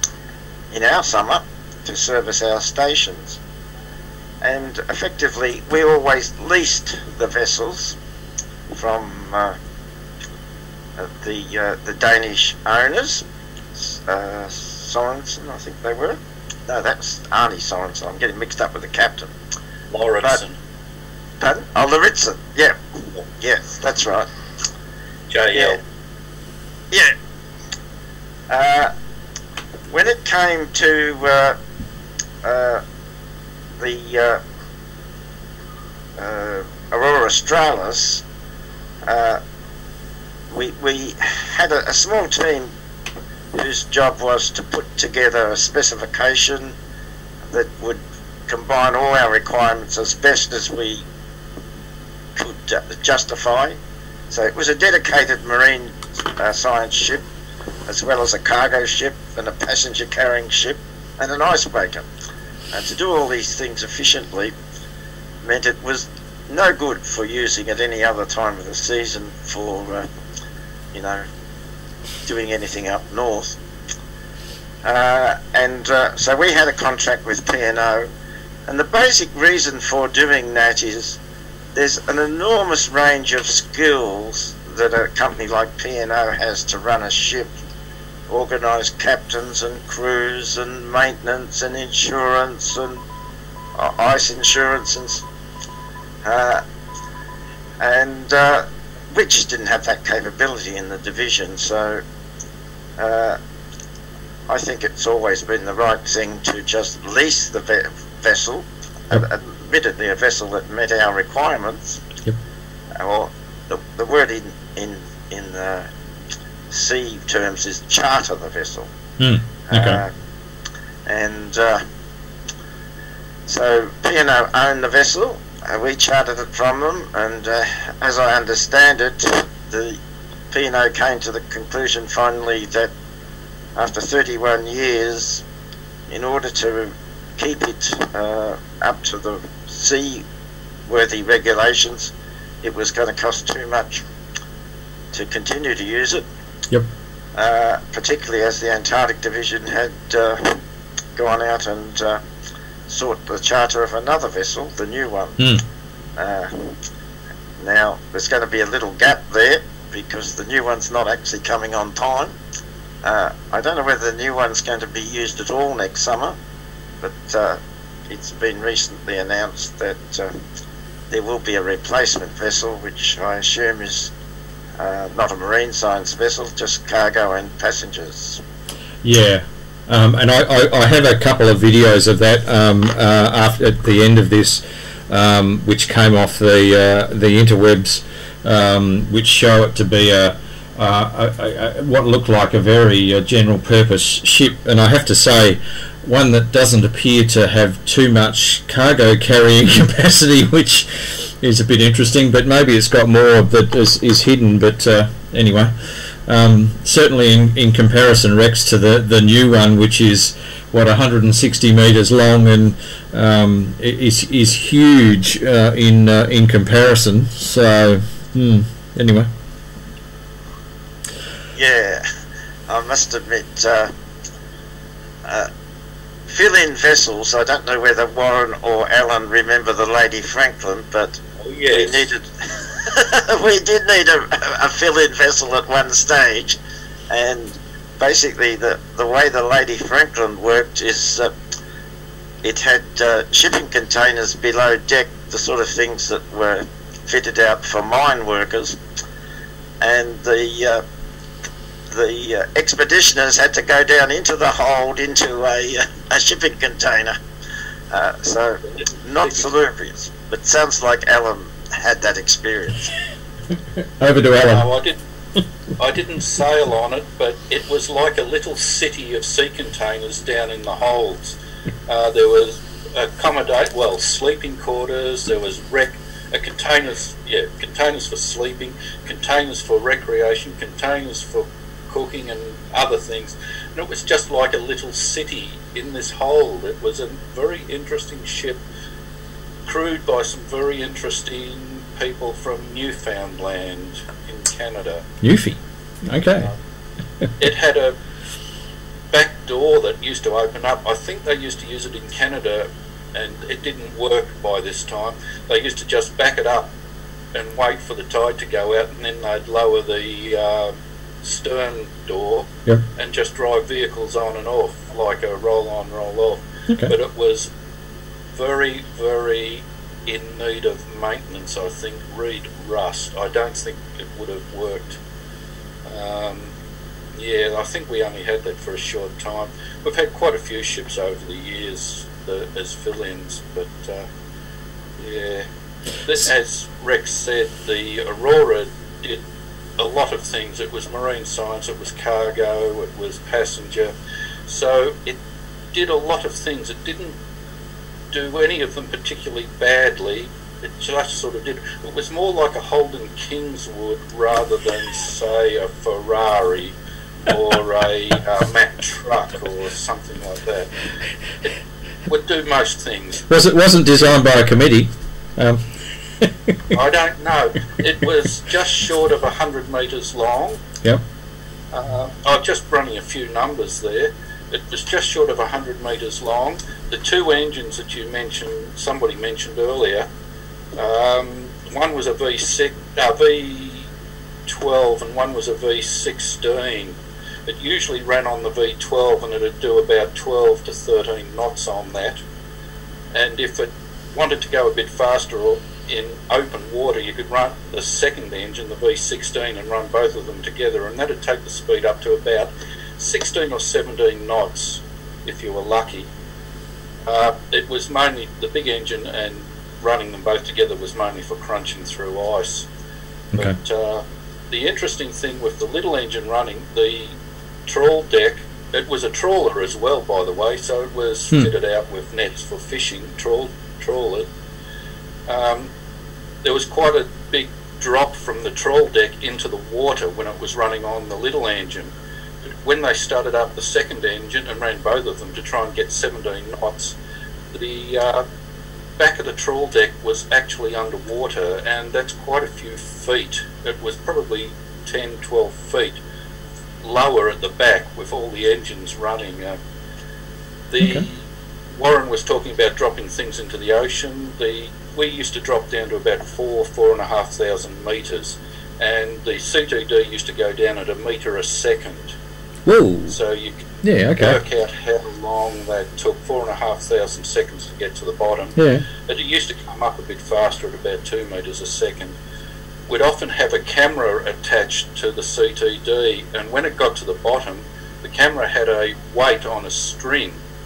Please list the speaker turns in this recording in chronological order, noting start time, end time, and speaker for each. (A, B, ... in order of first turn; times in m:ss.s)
0:00.7-0:03.4 A
0:04.4-0:08.0 A
0:08.7-0:09.5 A
0:11.0-0:13.2 A
0:13.7-0:19.3 A
0:19.9-0:20.5 B
0:21.4-0:22.8 A
0:23.4-0:24.3 A
0:25.3-0:25.8 B
0:25.5-0:25.8 A
0:28.5-0:28.9 A
0:29.9-0:31.6 A
0:32.4-0:32.8 A
0:33.8-0:34.4 A
0:36.2-0:38.2 A
0:39.0-0:39.4 A
0:40.5-0:42.7 A
0:43.5-0:46.7 A
0:47.5-0:51.0 A
0:52.4-0:53.8 A
0:54.3-0:57.2 A
0:57.9-1:02.1 A
1:02.7-1:04.5 A
1:05.4-1:10.0 A
1:10.9-1:11.2 A
1:12.2-1:13.6 A
1:14.8-1:18.1 A
1:18.7-1:21.2 A
1:21.7-1:27.5 A
1:28.3-1:33.0 A
1:33.8-1:35.2 A
1:36.2-1:36.6 A
1:37.8-1:42.0 A
1:43.0-1:43.4 A
1:44.5-1:52.0 A
1:53.0-1:55.9 A
1:56.7-1:58.9 A
1:59.2-2:00.0 C
1:59.7-2:00.1 A
2:01.0-2:01.8 A
2:03.5-2:10.0 A
2:10.5-2:12.9 A
2:13.8-2:15.4 A
2:16.1-2:20.2 A
2:20.9-2:24.0 A
2:25.1-2:26.2 A
2:27.3-2:30.6 A
2:31.2-2:32.2 A
2:32.9-2:35.4 A
2:36.2-2:36.7 A
2:37.6-2:42.4 A
2:43.0-2:46.4 A
2:47.0-2:47.6 A
2:48.1-2:50.3 A
2:51.1-2:54.1 A
2:54.8-2:58.4 A
2:59.0-3:25.7 C
3:26.3-3:39.3 C
3:41.6-3:42.0 A
3:42.7-3:43.9 A
3:46.3-3:51.2 A
3:51.4-3:52.0 B
3:51.7-3:56.6 A
3:57.1-4:01.3 A
4:02.4-4:08.8 A
4:09.8-4:10.8 A
4:11.9-4:17.2 A
4:17.9-4:22.9 A
4:18.8-4:19.4 B
4:24.0-4:24.7 C
4:24.5-4:25.0 B
4:25.8-4:31.3 B
4:31.9-4:48.6 B
4:49.6-4:55.0 B
4:55.2-4:56.5 C
4:57.4-4:57.9 B
4:59.1-5:06.7 B
5:07.3-5:17.5 B
5:18.3-5:25.0 B
5:25.8-5:26.5 B
5:27.1-5:34.0 B
5:35.0-5:35.4 B
5:36.0-5:39.2 B
5:39.8-5:43.9 B
5:44.5-5:45.2 B
5:45.7-5:47.1 B
5:48.1-5:56.7 B
5:57.3-6:00.7 B
6:02.1-6:03.2 B
6:03.3-6:05.6 C
6:06.2-6:06.8 C
6:06.7-6:10.6 B
6:11.7-6:20.1 B
6:20.7-6:23.9 B
6:24.5-6:32.2 B
6:33.1-6:46.1 B
6:47.1-6:52.7 B
6:53.4-6:57.1 B
6:57.7-7:04.3 B
7:05.3-7:05.7 B
7:06.4-7:11.9 B
7:12.6-7:17.0 B
7:17.5-7:18.2 B
7:19.0-7:26.0 B
7:26.8-7:29.6 B
7:30.7-7:42.1 B
7:42.6-7:43.2 C
7:43.1-7:48.6 B
7:43.8-7:44.4 C
7:48.6-7:48.8 C
7:49.1-7:52.2 B
7:52.9-8:00.4 B